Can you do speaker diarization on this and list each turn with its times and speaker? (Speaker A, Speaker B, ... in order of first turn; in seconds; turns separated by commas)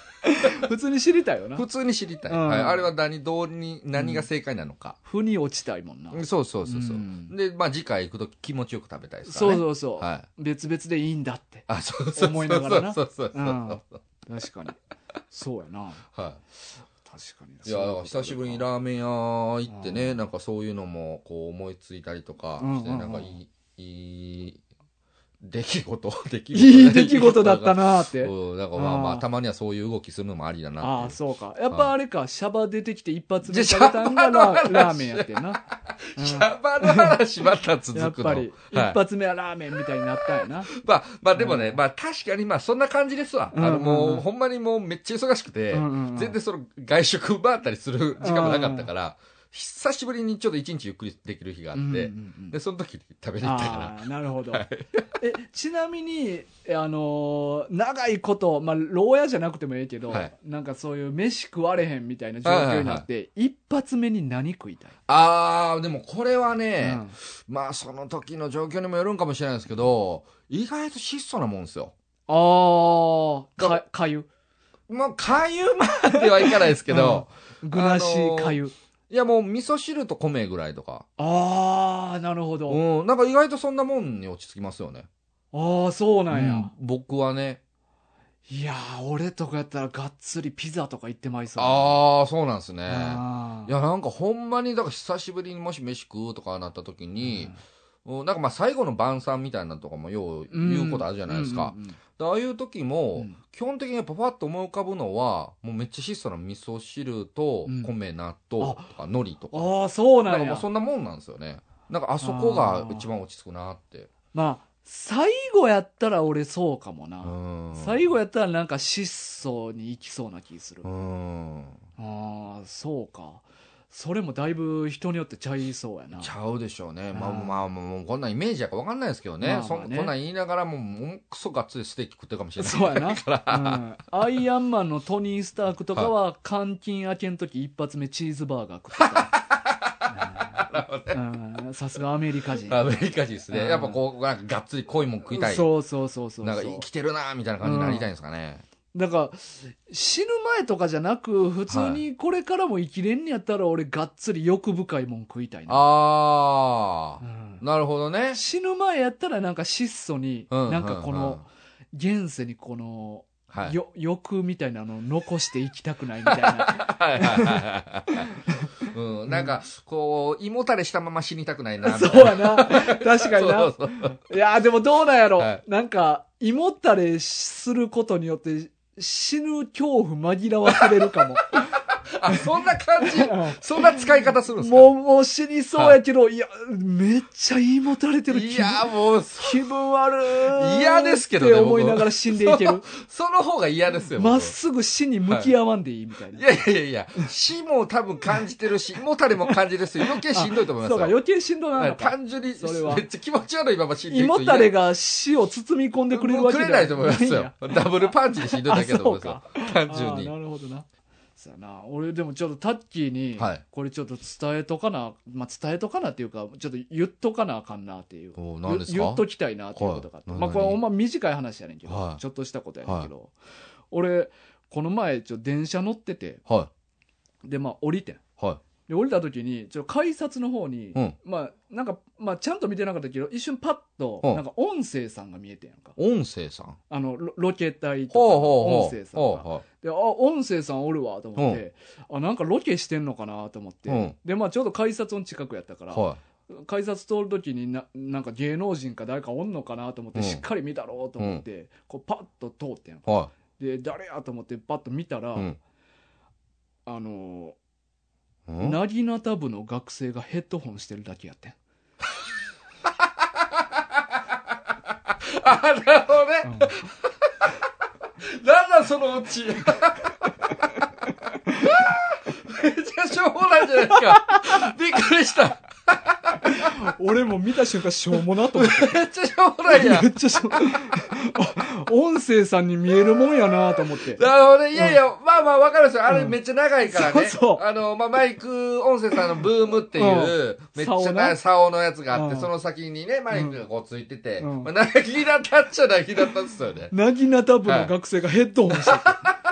Speaker A: 0.2-1.6, Speaker B: 1.6-5.0, Speaker A: 2.3-2.9, Speaker A: 4.0-4.3, Speaker A: 5.0-7.3, Speaker B: 6.1-10.3, Speaker A: 9.3-14.8, Speaker B: 11.7-14.0, Speaker A: 15.3-16.0, Speaker B: 16.1-16.4, Speaker A: 17.1-18.7, Speaker B: 17.6-24.6, Speaker A: 19.7-20.2, Speaker A: 22.6-23.3, Speaker B: 25.4-31.2, Speaker A: 26.5-29.2, Speaker A: 30.8-35.6, Speaker B: 33.5-39.0, Speaker A: 36.2-37.2, Speaker A: 37.9-40.7, Speaker B: 40.7-54.0, Speaker A: 41.4-41.8, Speaker A: 43.5-44.2, Speaker A: 45.7-46.4, Speaker A: 48.2-48.9, Speaker A: 51.7-52.6, Speaker A: 53.4-54.6, Speaker B: 54.5-55.0, Speaker A: 55.2-65.0, Speaker B: 62.5-63.0, Speaker B: 65.1-71.9, Speaker A: 66.8-67.2, Speaker A: 72.3-74.3, Speaker B: 74.9-78.6, Speaker A: 76.2-78.7, Speaker B: 79.1-81.0, Speaker A: 81.2-82.8, Speaker B: 82.7-85.1, Speaker A: 85.5-86.7, Speaker B: 86.3-87.6, Speaker A: 88.5-92.0, Speaker B: 91.6-109.7, Speaker A: 92.9-93.7, Speaker A: 97.2-97.6, Speaker A: 100.5-102.0, Speaker A: 107.7-107.9, Speaker A: 108.6-108.9, Speaker A: 109.5-110.7, Speaker B: 110.3-114.1, Speaker A: 112.2-113.1, Speaker A: 114.3-120.9, Speaker B: 117.2-118.0, Speaker B: 120.8-121.8, Speaker A: 122.0-126.3, Speaker B: 126.2-133.8, Speaker A: 127.1-127.6, Speaker A: 129.4-130.1, Speaker A: 132.6-139.4, Speaker B: 139.0-141.2, Speaker A: 140.1-143.0, Speaker B: 142.6-145.7, Speaker A: 143.5-144.0, Speaker A: 145.3-146.9, Speaker B: 146.4-148.6, Speaker A: 147.6-148.1, Speaker A: 148.9-155.8, Speaker B: 151.7-152.0, Speaker B: 155.7-158.4, Speaker A: 157.2-157.6, Speaker A: 158.3-168.7, Speaker B: 160.5-161.4, Speaker B: 163.5-163.8, Speaker B: 166.3-168.3, Speaker B: 168.8-174.2, Speaker A: 171.8-181.7, Speaker B: 180.8-181.2, Speaker B: 182.1-184.9, Speaker A: 183.0-184.1, Speaker A: 184.6-192.9, Speaker B: 188.3-189.7, Speaker B: 190.3-194.5, Speaker A: 194.2-196.5, Speaker B: 196.3-201.2, Speaker A: 199.5-203.1, Speaker B: 201.8-204.7, Speaker A: 204.1-210.9, Speaker B: 206.1-210.3, Speaker A: 211.4-223.3, Speaker B: 218.4-220.8, Speaker B: 221.9-222.2, Speaker A: 223.9-226.4, Speaker A: 227.4-228.2, Speaker A: 228.9-236.0, Speaker B: 236.0-236.8, Speaker A: 236.9-255.5, Speaker B: 238.1-239.6, Speaker B: 241.4-241.6, Speaker B: 243.9-244.2, Speaker B: 245.9-246.2, Speaker B: 250.2-250.4, Speaker B: 253.1-253.3, Speaker A: 256.9-257.6, Speaker B: 258.5-258.8, Speaker A: 258.6-261.6, Speaker B: 263.4-264.0, Speaker B: 265.1-267.5, Speaker A: 266.4-266.8, Speaker B: 268.2-270.3, Speaker A: 270.5-270.8, Speaker A: 271.5-271.8, Speaker B: 271.6-276.8, Speaker A: 273.9-274.7, Speaker A: 276.4-279.0, Speaker B: 278.2-280.9, Speaker A: 279.7-284.2, Speaker B: 284.0-296.9, Speaker A: 286.1-286.4, Speaker A: 286.9-287.6, Speaker A: 289.9-291.4, Speaker A: 292.1-292.5, Speaker A: 293.3-293.6, Speaker A: 294.4-294.7, Speaker A: 296.9-299.2, Speaker B: 297.7-297.9, Speaker B: 298.7-299.4